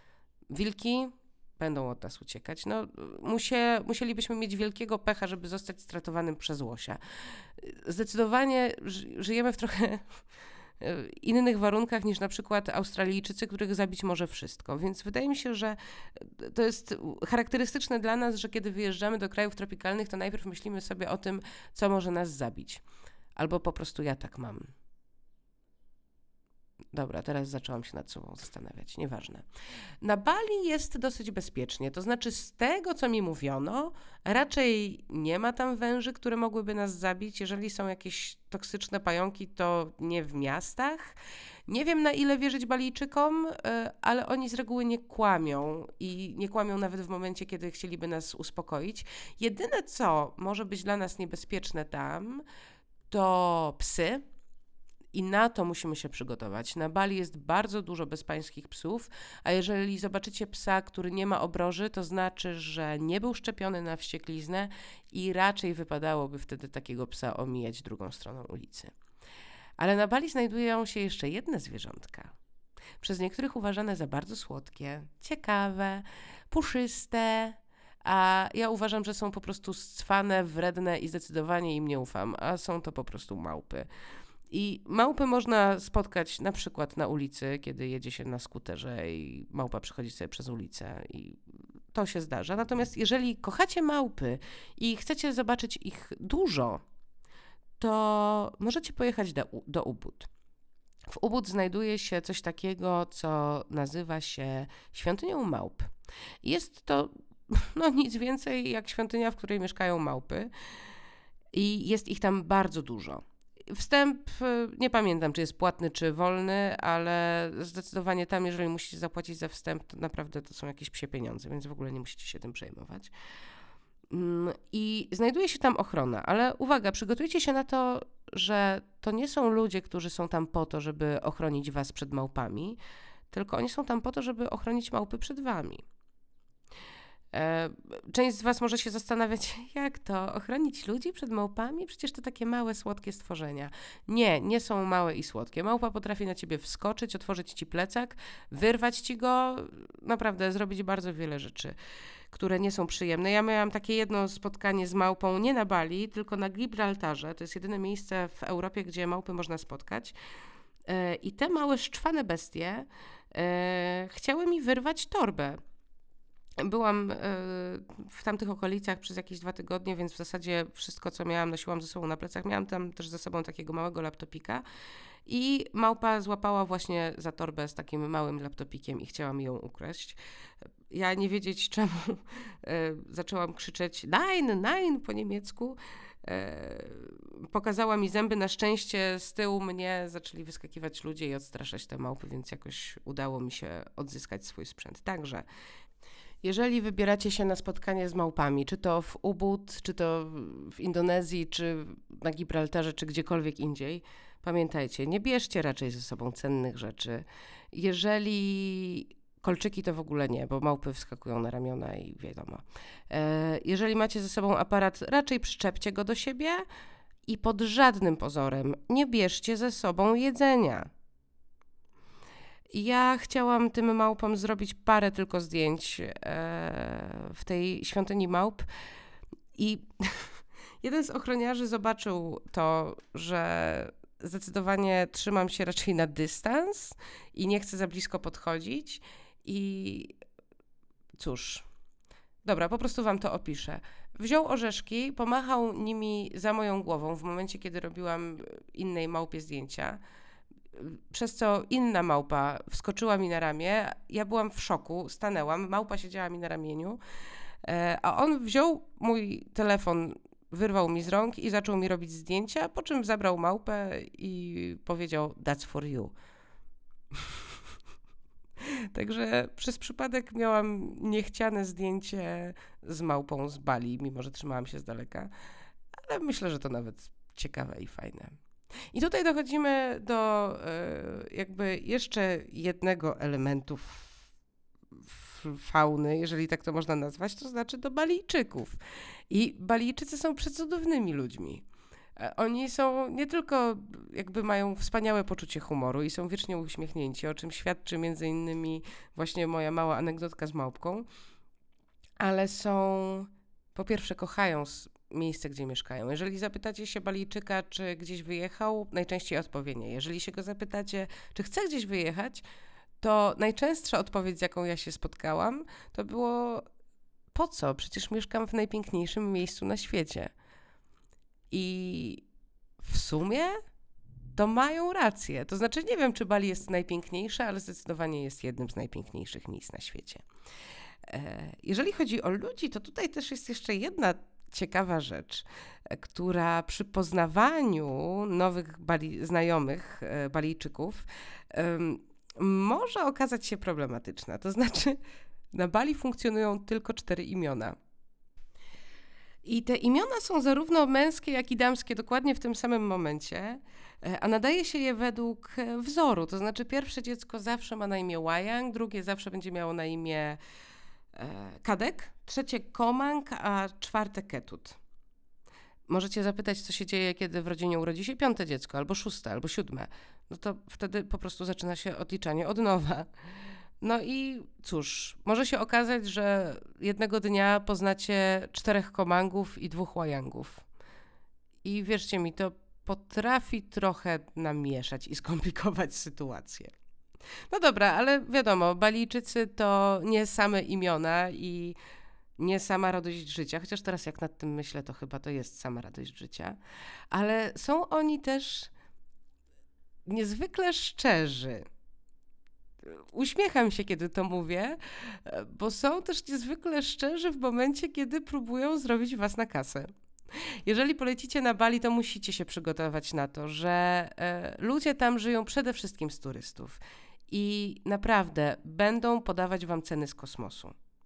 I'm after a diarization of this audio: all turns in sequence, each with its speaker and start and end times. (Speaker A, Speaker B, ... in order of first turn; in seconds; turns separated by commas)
Speaker A: 0.5-7.0, Speaker A: 7.6-10.1, Speaker A: 10.8-22.8, Speaker A: 23.4-24.7, Speaker A: 26.9-29.5, Speaker A: 30.0-41.2, Speaker A: 41.7-52.4, Speaker A: 53.1-54.2, Speaker A: 55.1-68.9, Speaker A: 69.8-72.3, Speaker A: 73.0-83.9, Speaker A: 84.5-91.4, Speaker A: 91.9-96.8, Speaker A: 97.8-100.3, Speaker A: 101.1-105.9, Speaker A: 106.4-110.5, Speaker A: 111.5-123.1, Speaker A: 124.1-132.8, Speaker A: 133.3-135.8, Speaker A: 137.3-151.8, Speaker A: 152.3-160.1, Speaker A: 160.9-165.6, Speaker A: 166.6-174.6, Speaker A: 175.3-180.2, Speaker A: 180.9-195.4, Speaker A: 196.4-216.7, Speaker A: 217.3-220.9, Speaker A: 222.7-228.7, Speaker A: 229.6-240.1, Speaker A: 241.2-241.7, Speaker A: 242.4-250.0, Speaker A: 250.8-257.0, Speaker A: 257.6-266.1, Speaker A: 267.1-267.5, Speaker A: 268.6-275.3, Speaker A: 275.9-278.4, Speaker A: 278.9-284.2, Speaker A: 285.0-288.8, Speaker A: 289.3-291.6, Speaker A: 292.2-301.1, Speaker A: 302.2-312.4, Speaker A: 313.0-316.7, Speaker A: 317.3-320.3, Speaker A: 321.5-322.2, Speaker A: 322.8-323.6, Speaker A: 324.4-330.2, Speaker A: 331.1-345.0, Speaker A: 345.5-347.8, Speaker A: 349.4-360.4, Speaker A: 361.1-364.8, Speaker A: 365.9-373.1, Speaker A: 373.8-380.6, Speaker A: 381.6-386.7, Speaker A: 387.5-391.8, Speaker A: 392.4-396.6, Speaker A: 397.1-398.7, Speaker A: 400.1-401.7, Speaker A: 402.9-409.9, Speaker A: 410.6-420.8